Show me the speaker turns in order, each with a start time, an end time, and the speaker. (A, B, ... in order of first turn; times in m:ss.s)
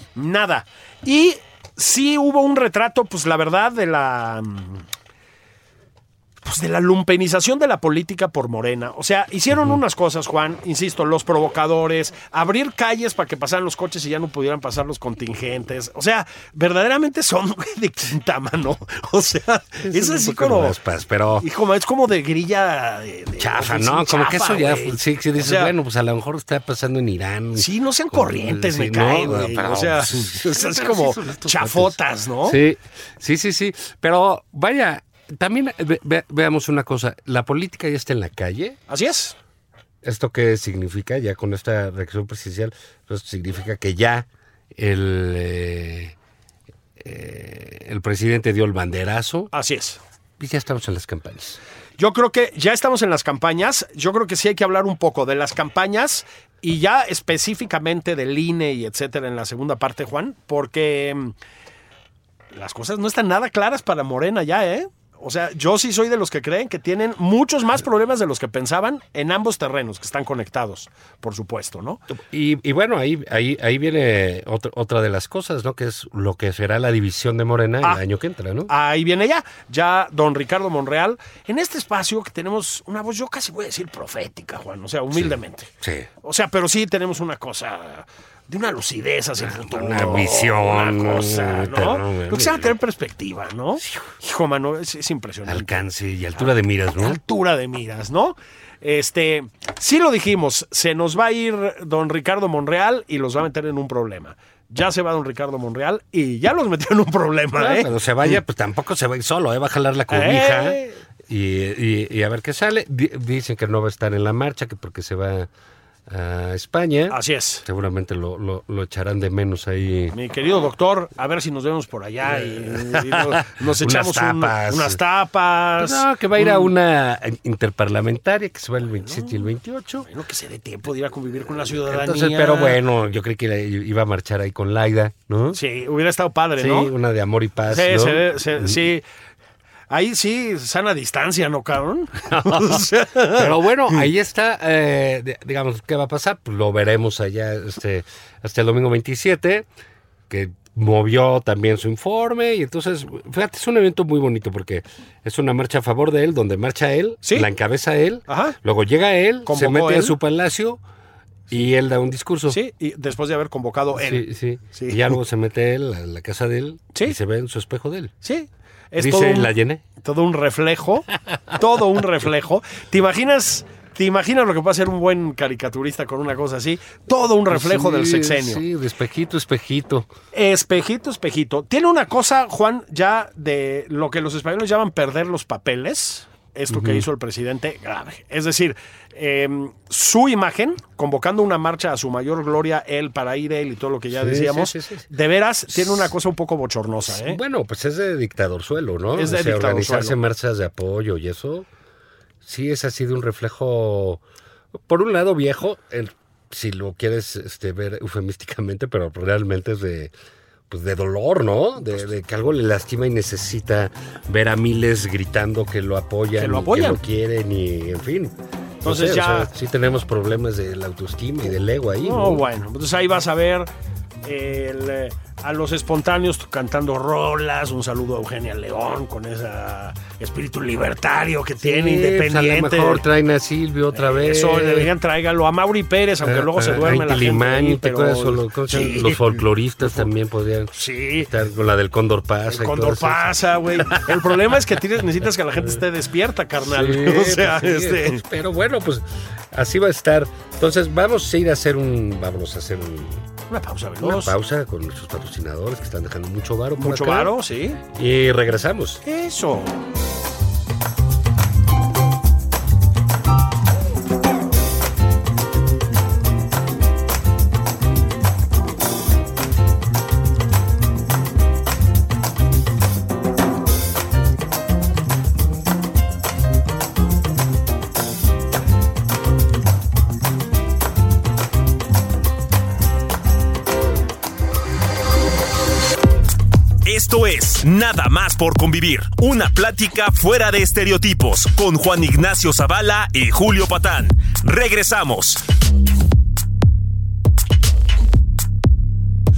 0:00.2-0:04.8 A
0:06.4-0:20.8 A
0:19.8-0:21.4 B
0:21.4-0:25.7 A
0:23.4-0:38.8 B
0:27.5-0:32.6 A
0:38.9-0:39.3 A
0:40.0-0:46.1 B
0:47.0-0:49.5 B
0:49.5-0:50.0 A
0:50.4-0:51.6 B
0:52.0-1:01.3 A
1:02.5-1:12.0 A
1:12.1-1:18.7 B
1:18.7-1:25.7 A
1:25.1-1:26.1 B
1:26.2-1:35.8 A
1:29.4-1:32.7 B
1:35.4-1:37.2 B
1:37.0-1:48.4 A
1:47.6-1:55.5 B
1:50.1-1:51.0 A
1:56.1-2:00.1 B
1:57.1-1:57.6 A
2:00.1-2:06.7 A
2:02.2-2:05.0 B
2:05.8-2:10.1 B
2:09.0-2:09.5 A
2:10.0-2:12.8 A
2:11.8-2:15.6 B
2:15.5-2:16.9 A
2:16.6-2:18.8 B
2:17.7-2:19.0 A
2:19.9-2:24.0 A
2:22.3-2:29.7 B
2:30.3-2:40.8 B
2:37.2-2:37.5 A
2:38.3-2:38.6 A
2:39.4-2:40.1 A
2:41.5-2:42.6 B
2:42.5-2:45.1 A
2:44.0-2:48.1 B
2:48.2-2:58.6 A
2:49.0-2:49.8 B
2:57.5-3:00.1 B
3:00.3-3:17.4 A
3:06.7-3:07.0 B
3:14.1-3:15.1 B
3:15.7-3:16.1 B
3:17.1-3:21.7 B
3:19.1-3:20.2 A
3:22.4-3:24.2 B
3:24.8-3:30.1 B
3:30.7-3:42.4 B
3:36.4-3:37.0 A
3:38.8-3:39.5 A
3:42.0-3:43.7 A
3:44.2-3:53.0 A
3:51.6-3:54.9 B
3:53.9-4:00.1 A
3:56.2-4:04.2 B
4:00.7-4:01.3 A
4:02.5-4:08.2 A
4:06.6-4:13.2 B
4:13.5-4:14.3 A
4:14.0-4:17.3 B
4:16.8-4:17.8 A
4:17.9-4:19.0 B
4:19.0-4:19.8 A
4:46.8-4:55.4 C